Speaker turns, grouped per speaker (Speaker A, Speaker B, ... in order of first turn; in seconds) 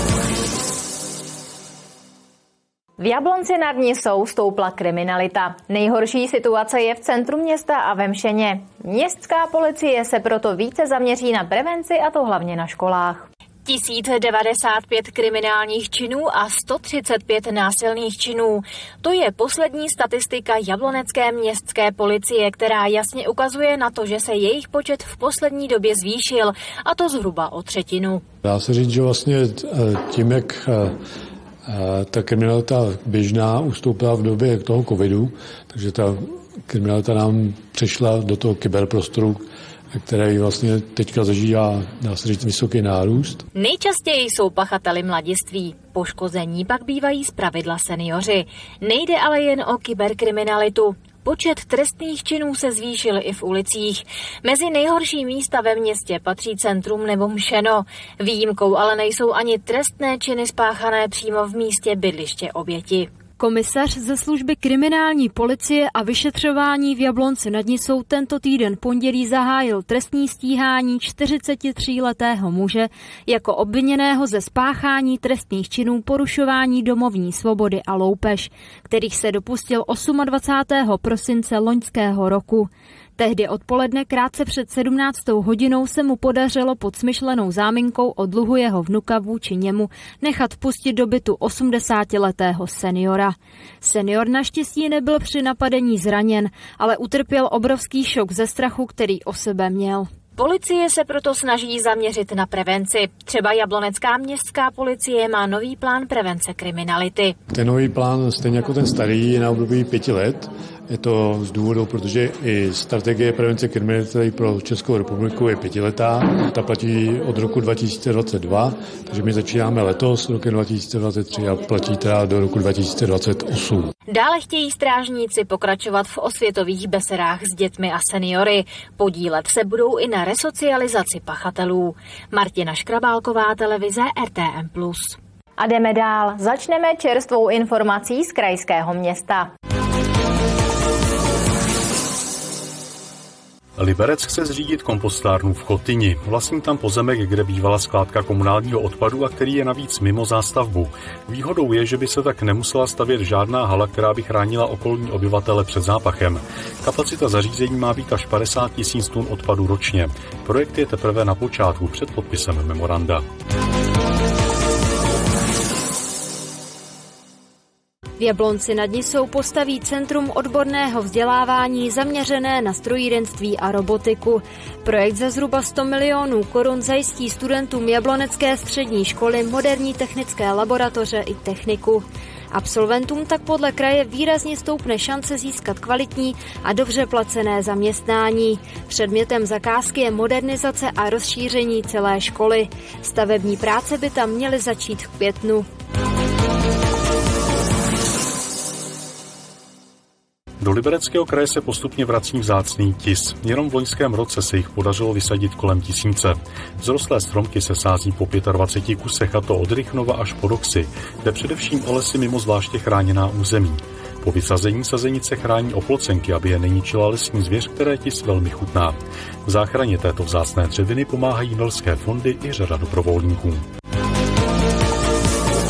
Speaker A: 3.0-18.4, 19.1-26.3, 27.0-27.9, 43.9-48.4, 49.0-63.0, 100.4-107.3, 124.4-128.4, 129.0-129.8, 130.4-131.3, 132.4-135.0, 135.6-139.5
Speaker B: 28.4-30.9, 31.7-39.5, 40.0-43.4, 107.5-123.9
Speaker C: 63.4-100.1, 168.2-195.7
Speaker D: 143.8-163.2, 200.6-223.6